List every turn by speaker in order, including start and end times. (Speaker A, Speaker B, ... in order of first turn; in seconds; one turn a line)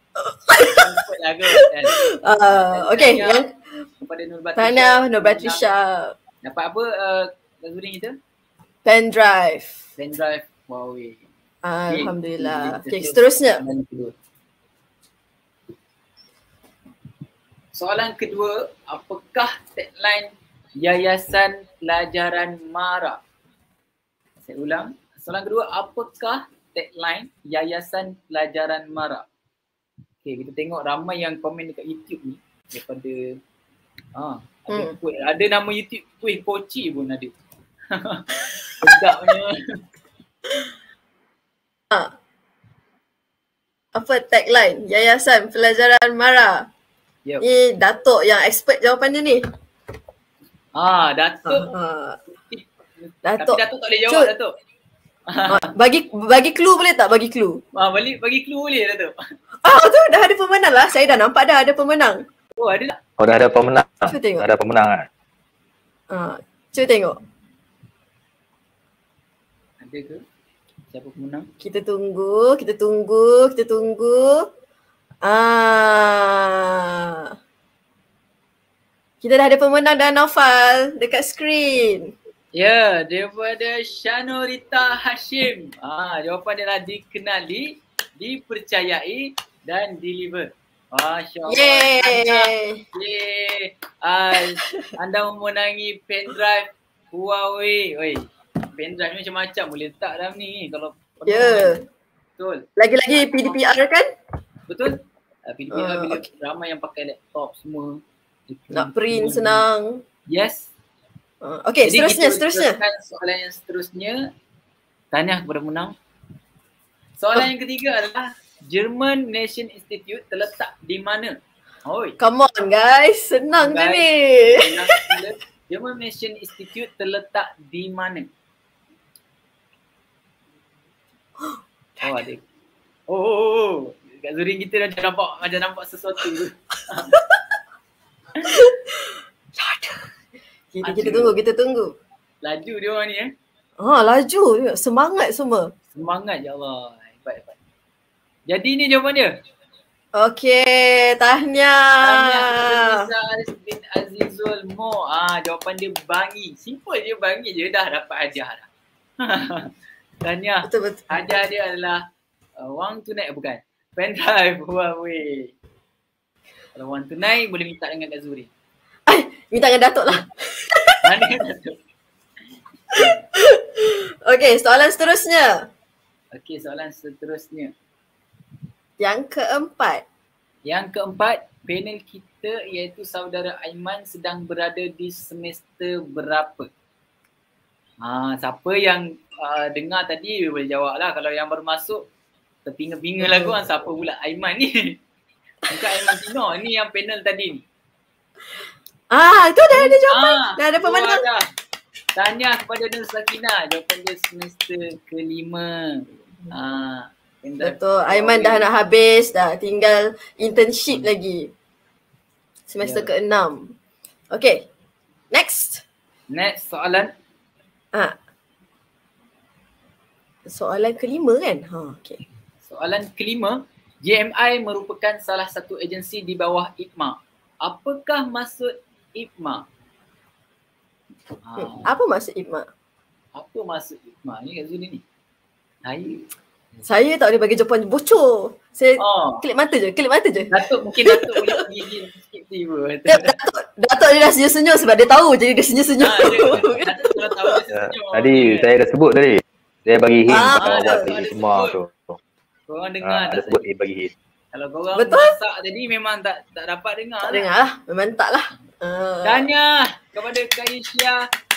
Speaker A: 0.2-3.6
Speaker B: 0.8-2.0
Speaker B: 2.7-3.4
Speaker B: 4.0-5.7
Speaker A: 4.6-6.2
Speaker B: 6.4-8.2
Speaker A: 8.8-9.8
Speaker B: 10.0-11.2
Speaker A: 11.6-13.6
Speaker B: 11.9-14.1
Speaker B: 17.8-23.2
Speaker B: 24.5-29.3
Speaker B: 30.2-33.2
Speaker B: 34.2-37.4
Speaker B: 37.9-39.8
Speaker A: 38.9-39.1
Speaker A: 44.0-46.7
Speaker A: 47.4-49.4
Speaker B: 50.8-51.7
Speaker A: 51.5-52.2
Speaker B: 52.5-54.5
Speaker A: 53.2-54.3
Speaker B: 55.3-55.7
Speaker A: 55.5-57.6
Speaker B: 57.8-59.1
Speaker A: 59.6-62.2
Speaker B: 62.6-63.0
Speaker C: 63.2-65.0
Speaker A: 64.0-64.5
Speaker A: 66.1-67.2
Speaker B: 69.8-70.2
Speaker B: 70.9-71.5
Speaker A: 71.6-74.5
Speaker A: 75.2-77.3
Speaker A: 79.2-82.1
Speaker B: 82.6-101.8
Speaker A: 91.5-92.8
Speaker A: 94.4-94.9
Speaker A: 101.3-101.8
Speaker B: 102.4-103.6
Speaker A: 102.8-104.1
Speaker B: 104.7-105.0
Speaker B: 105.5-109.6
Speaker A: 105.7-106.2
Speaker A: 108.7-110.0
Speaker B: 110.3-110.7
Speaker A: 111.4-112.8
Speaker B: 111.8-114.2
Speaker B: 115.1-115.9
Speaker B: 117.2-122.2
Speaker A: 122.2-125.2
Speaker B: 123.6-128.3
Speaker A: 131.4-132.2
Speaker B: 132.0-132.4
Speaker B: 133.1-137.1
Speaker A: 138.5-140.1
Speaker A: 140.7-141.9
Speaker B: 140.8-141.3
Speaker B: 142.4-143.3
Speaker A: 143.8-145.7
Speaker B: 145.9-147.6
Speaker B: 148.5-149.3
Speaker A: 150.2-153.1
Speaker B: 152.0-158.7
Speaker B: 159.2-159.7
Speaker B: 160.2-162.0
Speaker A: 160.7-161.3
Speaker B: 162.6-165.5
Speaker B: 166.8-168.5
Speaker A: 169.1-171.0
Speaker B: 171.0-171.8
Speaker B: 172.9-173.2
Speaker A: 172.9-175.7
Speaker B: 176.3-177.7
Speaker A: 179.0-180.0
Speaker B: 180.7-186.7
Speaker B: 188.0-192.0
Speaker B: 192.7-195.0
Speaker A: 193.2-193.6
Speaker B: 195.7-197.6
Speaker A: 195.8-196.2
Speaker A: 199.1-201.3
Speaker B: 199.7-201.5
Speaker B: 202.2-208.6
Speaker A: 207.6-211.5
Speaker A: 212.7-213.7
Speaker B: 212.8-213.1
Speaker A: 214.3-214.7
Speaker A: 215.3-215.8
Speaker B: 216.3-217.1
Speaker A: 220.5-222.2
Speaker B: 222.7-229.6
Speaker B: 231.5-231.9
Speaker A: 231.6-232.7
Speaker B: 233.4-235.0
Speaker B: 235.8-236.2
Speaker A: 236.9-241.7
Speaker B: 239.0-239.4
Speaker B: 240.5-243.3
Speaker A: 243.1-247.6
Speaker B: 246.0-248.7
Speaker C: 247.8-252.1
Speaker A: 250.3-251.1
Speaker B: 250.4-251.8
Speaker B: 252.7-253.6
Speaker C: 253.1-254.1
Speaker B: 254.5-257.5
Speaker A: 255.0-255.3
Speaker A: 257.2-259.5
Speaker B: 259.2-261.2